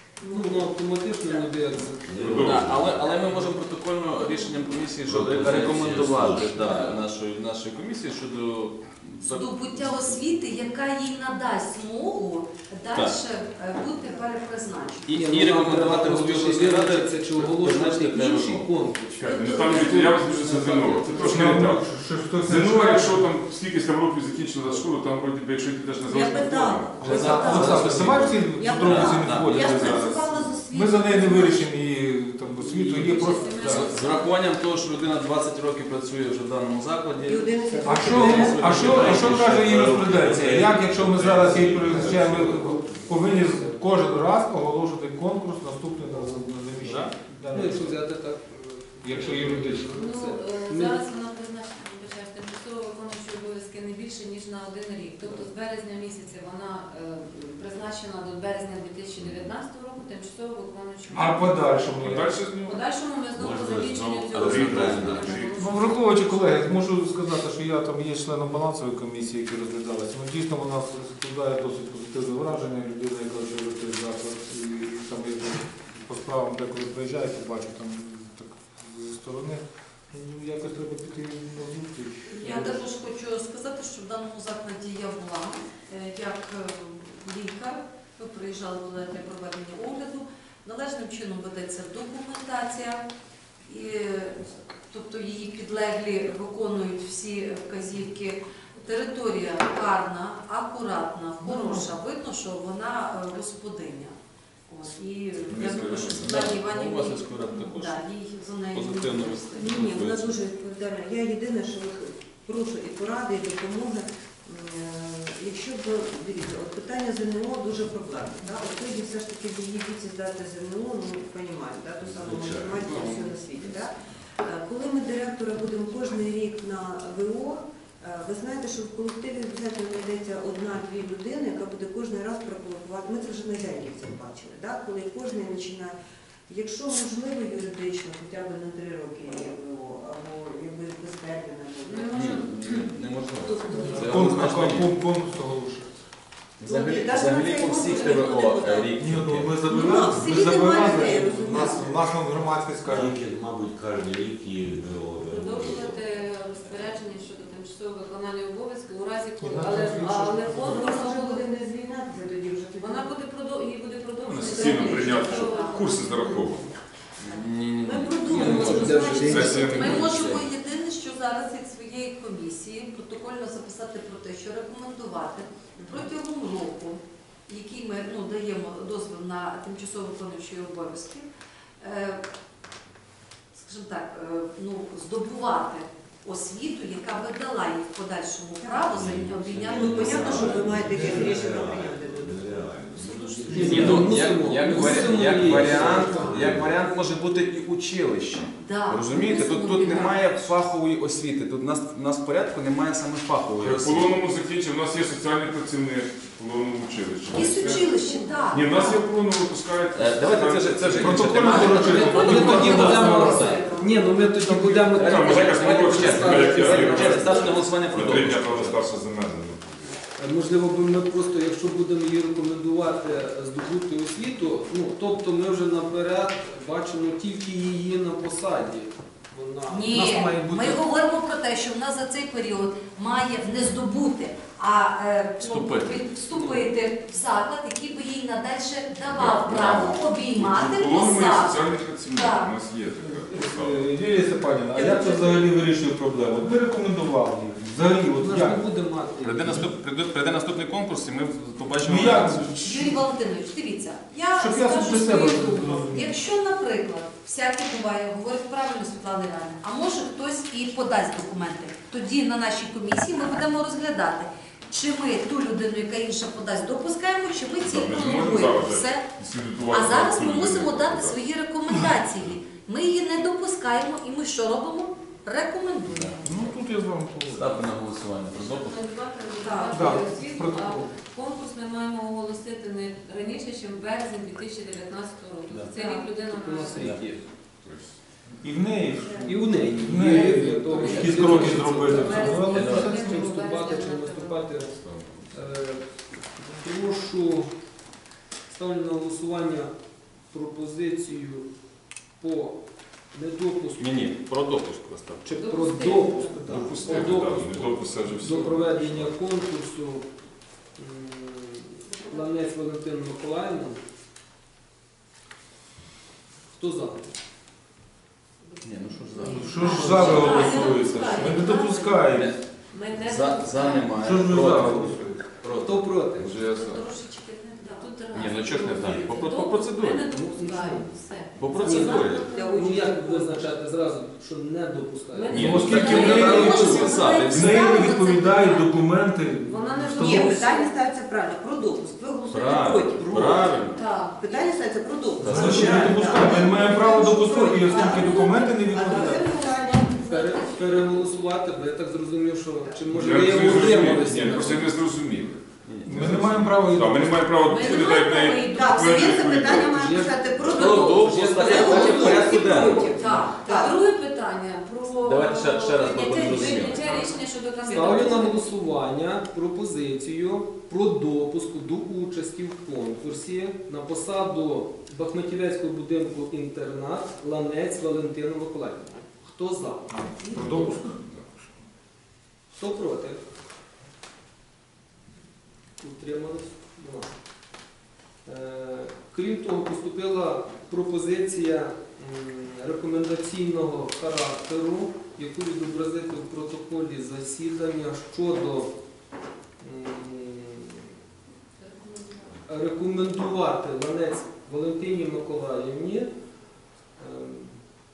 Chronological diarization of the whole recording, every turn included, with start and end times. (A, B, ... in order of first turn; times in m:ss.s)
0:00.2-0:01.5 A
0:00.3-0:02.5 B
0:01.9-0:03.1 C
0:02.2-0:02.8 D
0:02.4-0:10.2 E
0:04.2-0:04.7 A
0:05.0-0:06.9 C
0:09.2-0:15.2 F
0:12.9-0:13.2 E
0:15.1-0:19.2 B
0:15.1-0:21.7 E
0:19.2-0:27.1 D
0:19.2-0:20.0 F
0:19.3-0:19.9 A
0:19.9-0:21.3 B
0:21.2-0:23.3 G
0:26.0-0:31.6 A
0:27.0-0:30.1 E
0:27.0-0:33.9 G
0:30.7-0:31.5 F
0:32.8-0:40.5 E
0:32.9-0:34.3 H
0:37.2-0:39.1 A
0:37.8-0:48.3 G
0:38.7-0:42.8 C
0:42.8-0:43.8 B
0:46.1-0:51.0 B
0:49.0-0:50.1 G
0:49.9-1:01.9 H
0:59.2-0:59.5 C
1:01.1-1:02.3 G
1:02.0-1:02.8 D
1:02.6-1:05.7 H
1:03.3-1:05.5 C
1:04.4-1:05.5 D
1:05.6-1:22.8 G
1:22.3-1:33.0 F
1:33.6-1:44.1 F
1:41.5-1:41.8 A
1:44.7-1:49.9 F
1:45.5-1:46.4 D
1:45.7-1:48.1 E
1:48.7-1:50.4 E
1:49.4-2:16.0 A
2:02.0-2:02.9 C
2:02.8-2:03.6 D
2:16.5-2:22.6 A
2:21.9-2:22.9 H
2:22.1-2:24.9 E
2:23.4-2:24.3 A
2:23.9-2:26.0 G
2:26.6-2:29.7 E
2:26.6-2:32.1 A
2:27.8-2:28.2 H
2:29.0-2:33.1 G
2:30.6-2:31.1 F
2:32.8-2:36.0 C
2:35.3-2:41.5 H
2:39.4-2:40.8 G
2:40.5-2:43.1 A
2:42.8-2:45.9 H
2:44.2-2:46.7 D
2:44.4-2:46.0 F
2:47.2-2:50.5 E
2:47.8-3:01.3 F
2:48.3-2:50.0 B
2:48.8-2:49.2 A
2:49.2-2:50.2 D
2:55.8-2:56.1 A
3:01.8-3:02.2 F
3:03.5-3:10.8 F
3:08.6-3:12.8 A
3:08.9-3:14.1 C
3:13.5-3:14.1 A
3:13.5-3:16.4 B
3:13.5-3:24.2 E
3:13.7-3:14.0 F
3:15.4-3:16.1 G
3:15.7-3:16.4 F
3:15.8-3:16.4 A
3:16.3-3:16.7 C
3:18.6-3:20.3 F
3:23.6-3:28.0 D
3:27.3-3:29.0 F
3:28.5-3:31.6 D
3:29.9-3:38.9 E
3:30.9-3:33.6 G
3:31.6-3:32.5 H
3:31.6-3:33.8 F
3:31.8-3:37.6 B
3:34.9-3:40.0 D
3:40.2-3:50.8 B
3:49.7-4:02.5 F
3:55.4-3:56.6 E
3:59.0-4:03.9 D
4:03.0-4:08.6 G
4:04.7-4:05.5 A
4:08.1-4:09.7 B
4:09.2-4:12.6 E
4:11.8-4:13.0 G
4:12.6-4:29.1 F
4:14.4-4:16.2 G
4:27.6-4:31.2 D
4:29.6-4:36.5 F
4:31.9-4:32.4 D
4:35.8-4:36.2 E
4:36.2-4:37.5 G
4:37.3-4:38.8 E
4:38.3-4:47.0 H
4:39.4-4:40.0 F
4:39.7-4:40.9 G
4:45.9-4:47.2 B
4:46.8-4:47.2 E
4:47.6-4:48.0 D
4:48.4-4:53.3 G
4:49.2-4:54.7 B
4:50.0-4:54.4 H
4:52.6-4:52.9 E
4:54.6-4:55.4 D
4:55.3-4:57.5 B
4:58.5-4:59.7 B
5:00.3-5:01.5 B
5:02.1-5:04.2 B
5:03.8-5:05.3 E
5:05.2-5:10.2 B
5:05.4-5:07.1 H
5:06.4-5:09.2 D
5:10.8-5:13.8 B
5:16.5-5:17.1 B
5:18.6-5:20.4 E
5:19.1-5:22.0 H
5:19.2-5:20.8 F
5:19.2-5:22.4 G
5:22.1-5:22.4 E
5:22.7-5:24.0 H
5:22.9-5:26.0 E
5:24.0-5:25.2 G
5:25.4-5:26.4 B
5:26.1-5:26.9 D
5:26.4-5:27.9 F
5:27.6-5:32.8 H
5:28.1-5:30.1 E
5:30.1-5:31.0 B
5:31.4-5:32.4 E
5:31.5-5:37.3 B
5:31.6-5:33.6 A
5:35.1-5:38.6 H
5:35.3-5:37.6 E
5:35.3-5:36.7 G
5:36.0-5:38.6 F
5:37.3-5:40.4 G
5:39.4-5:40.7 H
5:40.0-5:51.1 A
5:42.3-5:43.8 E
5:43.7-5:44.5 H
5:45.2-5:49.4 G
5:45.2-5:45.5 C
5:47.7-5:48.4 F
5:50.0-5:54.8 B
5:52.5-5:52.9 A
5:52.9-6:00.0 D
5:53.4-5:54.6 E
5:53.7-5:54.1 G
5:55.6-5:56.5 E
5:55.8-5:57.4 G
5:57.4-5:59.1 F
5:58.4-6:03.8 A
5:59.6-6:02.4 B
6:00.4-6:03.0 E
6:01.8-6:02.3 F
6:02.5-6:08.4 H
6:02.8-6:03.7 F
6:05.0-6:07.1 E
6:06.3-6:06.6 B
6:06.4-6:07.0 F
6:06.6-6:07.0 A
6:07.6-6:20.8 B
6:19.9-6:21.0 G
6:20.3-6:21.5 D
6:22.5-6:23.2 B
6:25.8-6:27.2 B
6:28.2-6:38.7 B
6:39.6-6:40.9 B
6:41.6-6:42.2 H
6:42.4-6:46.1 B
6:46.9-6:47.8 B